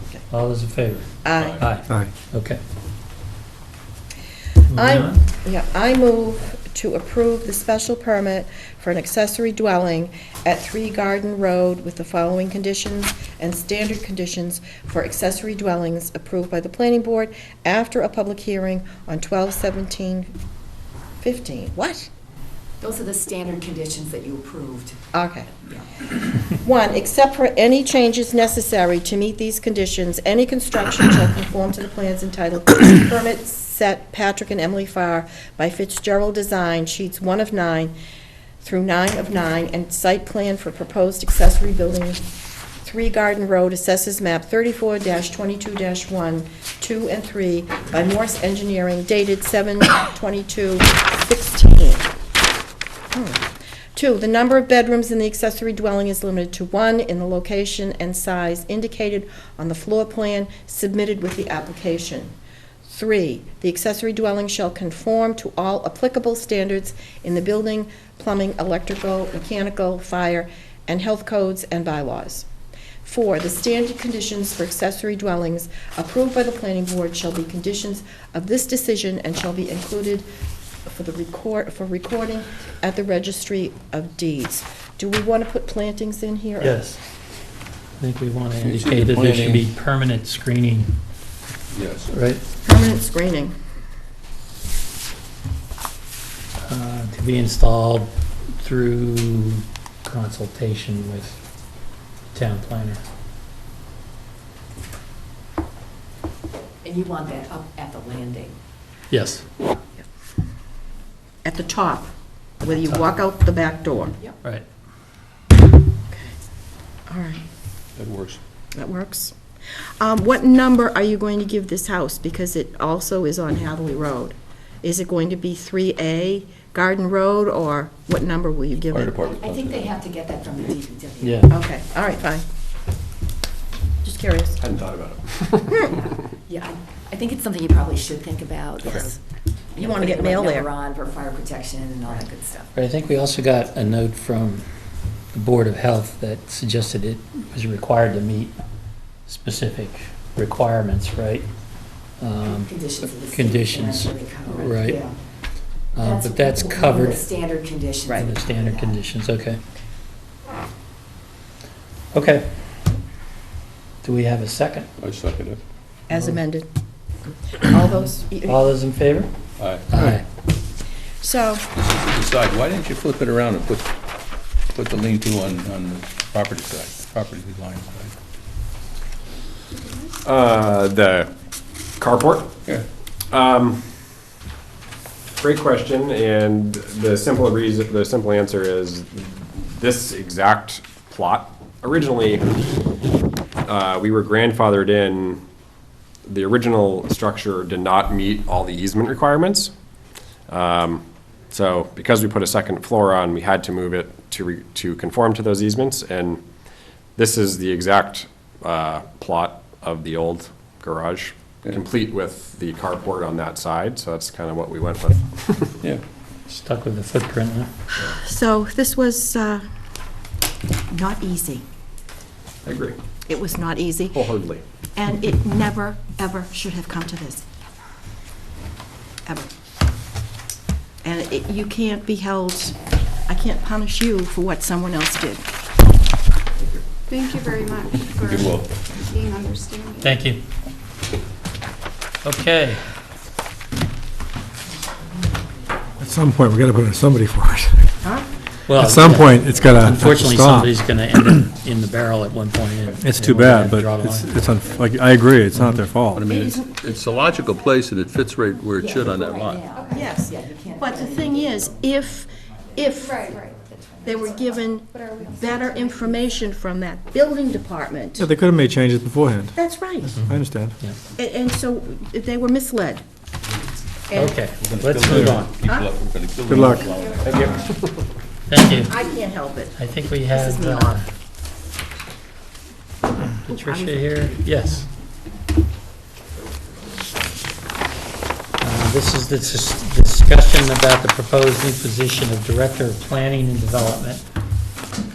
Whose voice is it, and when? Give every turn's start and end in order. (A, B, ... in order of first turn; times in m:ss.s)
0:00.3-0:02.6 A
0:01.2-0:01.6 B
0:04.7-0:05.2 A
0:04.8-0:20.3 B
0:21.2-0:22.1 B
0:22.8-0:25.0 C
0:25.1-0:25.5 B
0:26.6-0:37.9 B
0:38.6-0:42.2 B
0:42.8-0:52.1 B
0:53.1-1:02.3 B
1:02.8-1:12.5 B
1:13.0-1:20.3 B
1:20.9-1:26.8 B
1:26.6-1:27.0 A
1:28.0-1:31.0 A
1:28.6-1:29.7 D
1:31.7-1:32.1 D
1:32.1-1:32.4 A
1:32.6-1:33.6 B
1:36.6-1:41.4 A
1:42.3-1:43.0 A
1:46.8-1:48.5 C
1:49.1-1:49.5 A
1:51.4-1:52.1 B
1:52.6-1:54.2 B
1:57.1-1:57.4 B
1:58.0-1:58.4 D
1:58.8-1:59.3 B
2:00.0-2:09.2 B
2:08.9-2:09.9 D
2:09.4-2:11.4 C
2:11.2-2:11.5 A
2:11.5-2:12.4 B
2:14.0-2:14.6 B
2:14.6-2:16.0 E
2:15.9-2:19.2 C
2:19.8-2:22.7 C
2:19.8-2:20.7 B
2:22.8-2:24.6 A
2:25.3-2:28.6 A
2:29.3-2:31.5 A
2:32.2-2:35.0 A
2:32.5-2:35.2 C
2:36.0-2:37.3 A
2:36.0-2:39.0 C
2:38.2-2:39.6 A
2:42.1-2:42.6 A
2:44.0-2:44.9 A
2:45.0-2:45.6 D
2:46.1-2:46.7 B
2:47.6-2:48.6 B
2:48.5-2:49.3 A
2:49.6-2:49.9 D
2:49.9-2:50.2 A
2:51.2-2:51.7 B
2:51.9-2:53.9 D
2:54.7-2:58.2 D
3:00.2-3:01.3 E
3:02.0-3:02.5 E
3:03.3-3:03.8 E
3:05.4-3:12.5 E
3:13.7-3:15.4 E
3:16.3-3:19.7 E
3:20.5-3:26.4 E
3:27.2-3:35.7 E
3:36.5-3:37.7 A
3:38.0-3:39.6 B
3:40.9-3:41.6 B
3:42.7-3:43.0 D
3:43.3-3:44.3 B
3:44.1-3:44.6 E
3:45.0-3:47.5 B
3:51.0-3:52.8 B
3:53.3-3:55.4 B
3:57.1-4:00.1 F
3:58.1-3:58.7 D
4:00.0-4:00.4 A
4:02.2-4:02.8 A
4:06.0-4:08.0 G
4:08.0-4:08.3 B
4:08.6-4:14.3 A
4:08.8-4:11.4 G
4:13.0-4:16.3 G
4:16.1-4:19.7 D
4:16.4-4:17.2 C
4:18.8-4:24.6 C
4:19.8-4:20.1 F
4:19.9-4:23.3 B
4:23.0-4:23.6 F
4:24.0-4:28.3 B
4:24.8-4:26.2 F
4:28.2-4:29.6 G
4:29.6-4:30.3 B
4:30.1-4:30.8 G
4:31.2-4:33.0 B
4:34.1-4:34.4 B
4:34.2-4:35.6 A
4:34.6-4:37.5 D
4:35.6-4:35.9 B
4:36.5-4:36.8 G
4:36.7-4:37.2 F
4:37.2-4:37.7 E
4:38.5-4:38.9 A
4:38.8-4:39.8 B
4:39.8-4:41.1 A
4:40.3-4:41.0 B
4:43.4-4:44.9 A
4:43.5-4:44.4 B
4:48.6-4:54.2 A